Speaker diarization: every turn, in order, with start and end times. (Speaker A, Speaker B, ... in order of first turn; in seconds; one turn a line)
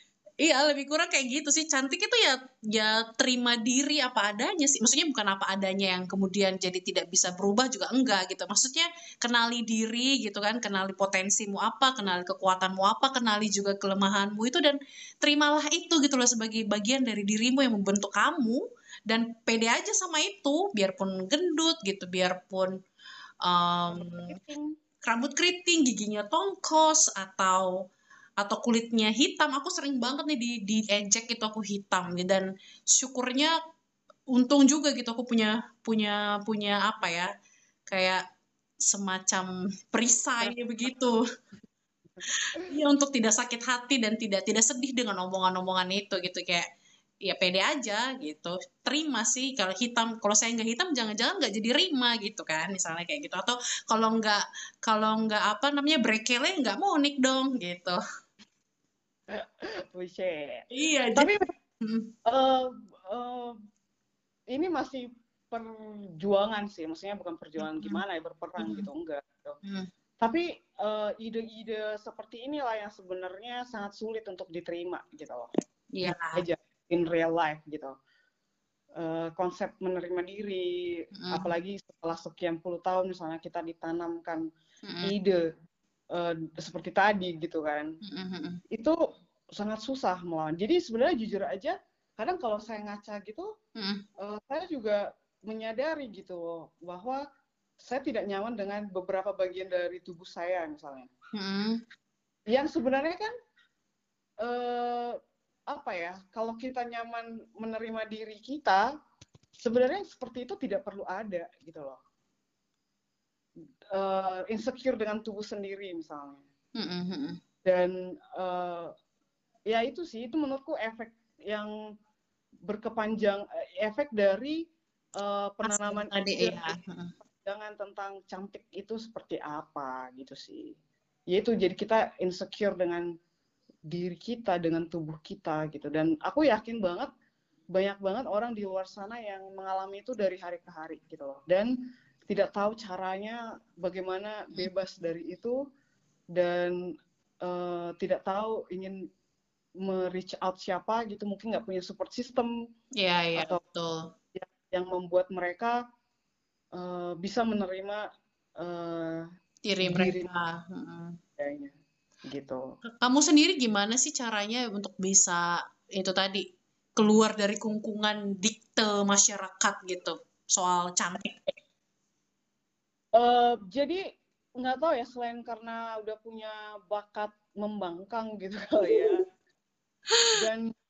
Speaker A: 0.4-22.8
Speaker A: 23.4-24.3
Speaker B: 23.9-24.7
Speaker A: 25.0-27.8
Speaker A: 28.4-33.5
Speaker A: 34.3-37.3
Speaker A: 37.9-38.2
Speaker A: 38.8-41.2
Speaker B: 42.2-42.7
Speaker A: 42.3-46.7
Speaker A: 47.2-58.0
Speaker B: 59.3-60.6
Speaker A: 60.7-62.1
Speaker B: 61.1-61.5
Speaker B: 62.2-63.6
Speaker B: 64.5-69.6
Speaker A: 67.6-68.0
Speaker A: 68.6-68.9
Speaker A: 69.6-69.9
Speaker B: 70.2-75.5
Speaker A: 75.9-76.4
Speaker B: 76.1-77.9
Speaker B: 79.0-84.5
Speaker A: 81.2-81.5
Speaker A: 84.8-85.1
Speaker B: 85.0-85.5
Speaker B: 86.1-87.9
Speaker A: 88.0-88.6
Speaker B: 89.5-93.5
Speaker A: 93.8-94.0
Speaker B: 94.2-97.2
Speaker B: 97.8-101.1
Speaker A: 101.3-101.8
Speaker B: 102.5-103.3
Speaker B: 104.4-105.2
Speaker B: 105.7-108.9
Speaker B: 109.6-112.0
Speaker B: 113.9-116.4
Speaker A: 116.8-117.4
Speaker B: 117.7-118.9
Speaker B: 119.7-121.7
Speaker B: 122.7-124.6
Speaker B: 125.2-126.8
Speaker A: 125.6-127.1
Speaker B: 127.4-130.8
Speaker B: 131.3-133.1
Speaker B: 133.9-137.1
Speaker B: 137.7-141.7
Speaker B: 142.3-145.6
Speaker B: 146.3-149.1
Speaker B: 149.8-152.5
Speaker A: 153.0-154.1
Speaker B: 154.3-155.8
Speaker B: 156.7-158.1
Speaker B: 158.6-159.3
Speaker A: 159.6-161.2
Speaker B: 159.8-160.3
Speaker B: 161.4-161.7
Speaker B: 162.3-162.7
Speaker A: 163.0-171.4
Speaker B: 173.1-174.0
Speaker B: 174.6-179.2
Speaker A: 178.8-179.1
Speaker B: 180.3-180.7